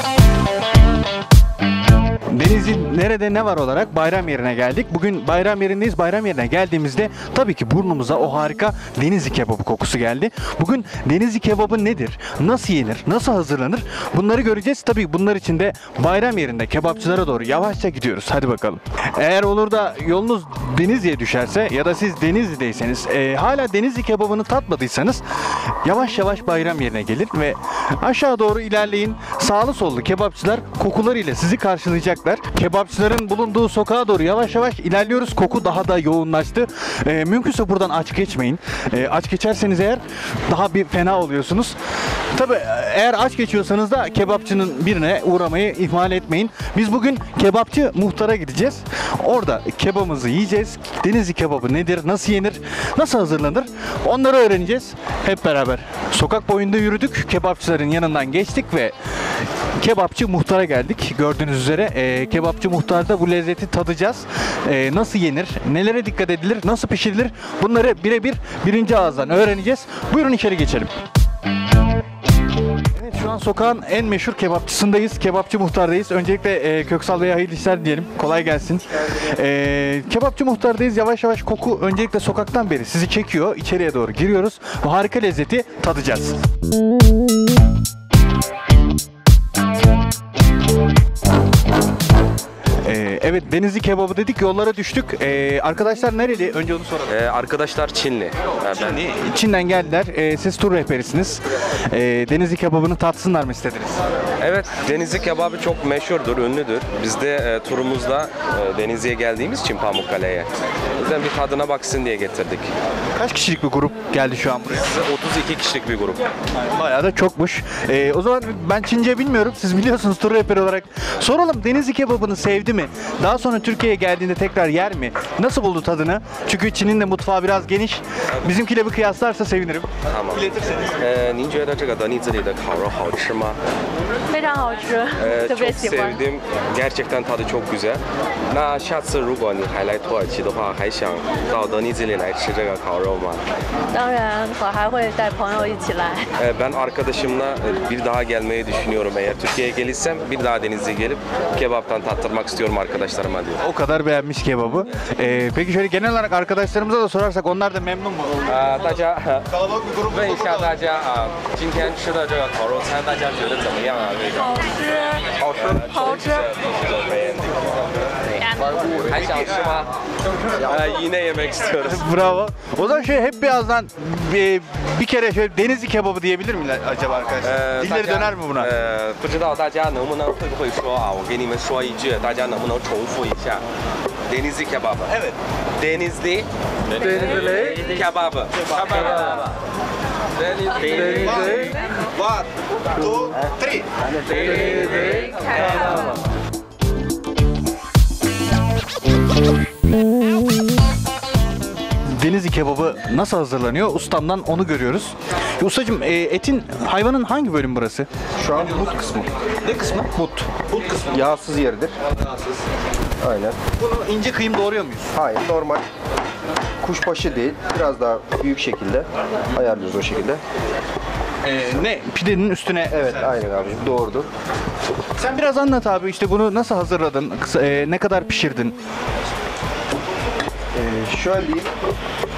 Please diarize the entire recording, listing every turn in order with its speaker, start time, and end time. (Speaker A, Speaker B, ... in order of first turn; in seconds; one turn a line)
Speaker A: 2.3-25.2
Speaker A: 25.8-41.8
Speaker A: 42.3-58.9
Speaker A: 59.8-70.9
Speaker A: 73.0-86.4
Speaker A: 92.8-97.1
Speaker B: 97.1-99.0
Speaker A: 98.8-104.0
Speaker B: 104.4-112.7
Speaker A: 113.2-114.9
Speaker B: 114.8-116.2
Speaker A: 116.7-130.9
Speaker B: 130.1-133.6
Speaker C: 134.3-136.2
Speaker B: 135.2-143.4
Speaker C: 143.9-146.3
Speaker B: 146.4-153.6
Speaker A: 153.6-158.5
Speaker B: 158.4-159.5
Speaker A: 159.6-160.6
Speaker B: 160.1-169.9
Speaker B: 170.5-172.1
Speaker A: 171.8-178.7
Speaker B: 177.4-183.6
Speaker B: 184.3-185.1
Speaker A: 185.1-185.3
Speaker B: 185.8-189.4
Speaker B: 190.4-191.8
Speaker A: 191.2-191.7
Speaker A: 193.0-193.9
Speaker A: 202.1-208.1
Speaker D: 208.4-209.3
Speaker A: 209.6-210.1
Speaker D: 210.1-210.5
Speaker A: 210.7-211.2
Speaker D: 211.1-211.9
Speaker D: 213.2-213.6
Speaker A: 213.8-215.1
Speaker D: 215.1-215.8
Speaker D: 216.8-220.4
Speaker A: 221.4-223.3
Speaker D: 222.9-224.3
Speaker A: 225.2-228.8
Speaker D: 230.7-231.7